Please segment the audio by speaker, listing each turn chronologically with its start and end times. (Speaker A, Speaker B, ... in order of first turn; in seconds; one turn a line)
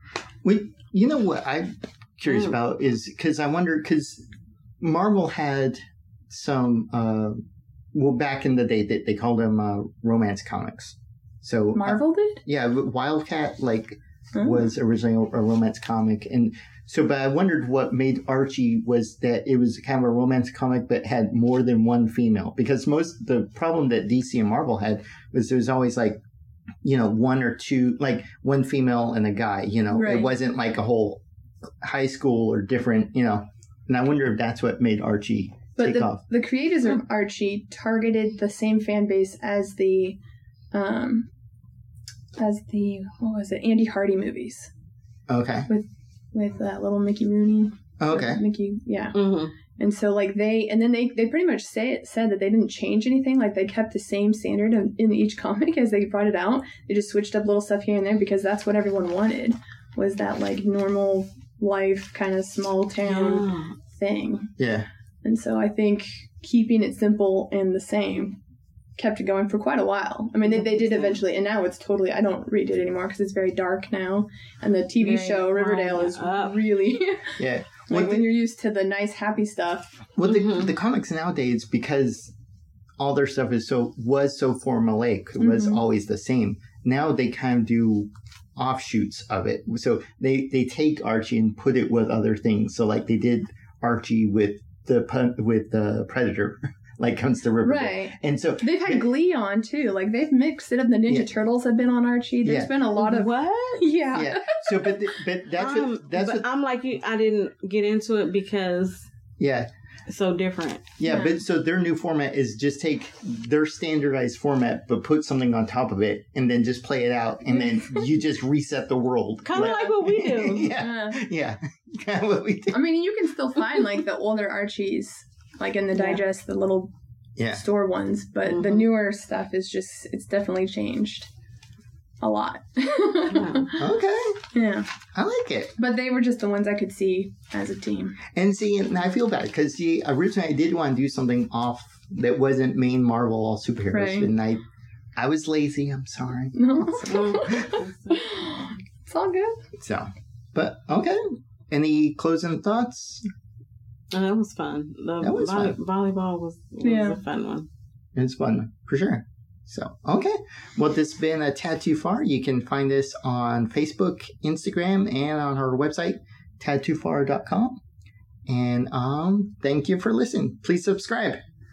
Speaker A: 0.4-4.2
Speaker A: 4.8-7.4
Speaker A: 7.9-26.2
Speaker B: 11.7-12.4
Speaker B: 14.3-14.7
Speaker A: 26.8-31.2
Speaker B: 29.9-30.3
Speaker A: 31.8-36.2
Speaker B: 35.8-40.2
Speaker B: 40.7-41.3
Speaker B: 42.4-44.7
Speaker A: 45.3-45.7
Speaker B: 45.7-49.2
Speaker A: 48.0-48.4
Speaker C: 49.1-49.5
Speaker B: 49.8-64.5
Speaker C: 63.0-63.8
Speaker A: 64.6-64.9
Speaker B: 65.2-68.4
Speaker B: 69.0-80.1
Speaker C: 70.4-71.2
Speaker C: 75.0-76.7
Speaker A: 77.4-78.4
Speaker A: 80.2-82.3
Speaker C: 80.2-80.8
Speaker A: 83.0-99.1
Speaker B: 85.4-85.9
Speaker B: 97.6-105.2
Speaker A: 102.4-102.8
Speaker C: 102.9-103.8
Speaker A: 104.1-106.4
Speaker C: 105.5-109.1
Speaker A: 109.4-109.7
Speaker C: 110.1-110.9
Speaker A: 111.0-122.8
Speaker B: 111.0-111.4
Speaker B: 117.5-118.0
Speaker C: 119.4-120.7
Speaker B: 119.6-120.0
Speaker B: 120.7-121.2
Speaker B: 122.7-126.9
Speaker C: 125.9-126.2
Speaker A: 127.4-127.6
Speaker B: 127.5-131.3
Speaker C: 128.5-128.9
Speaker B: 132.2-133.9
Speaker C: 133.3-133.8
Speaker A: 133.8-134.4
Speaker B: 134.5-134.9
Speaker A: 135.1-135.8
Speaker B: 135.8-138.2
Speaker A: 138.3-144.6
Speaker B: 143.9-144.3
Speaker A: 145.2-146.6
Speaker B: 146.5-149.6
Speaker C: 147.0-148.2
Speaker A: 149.8-153.2
Speaker C: 154.1-157.7
Speaker A: 155.2-155.8
Speaker B: 156.8-157.2
Speaker A: 158.1-167.8
Speaker A: 168.5-171.4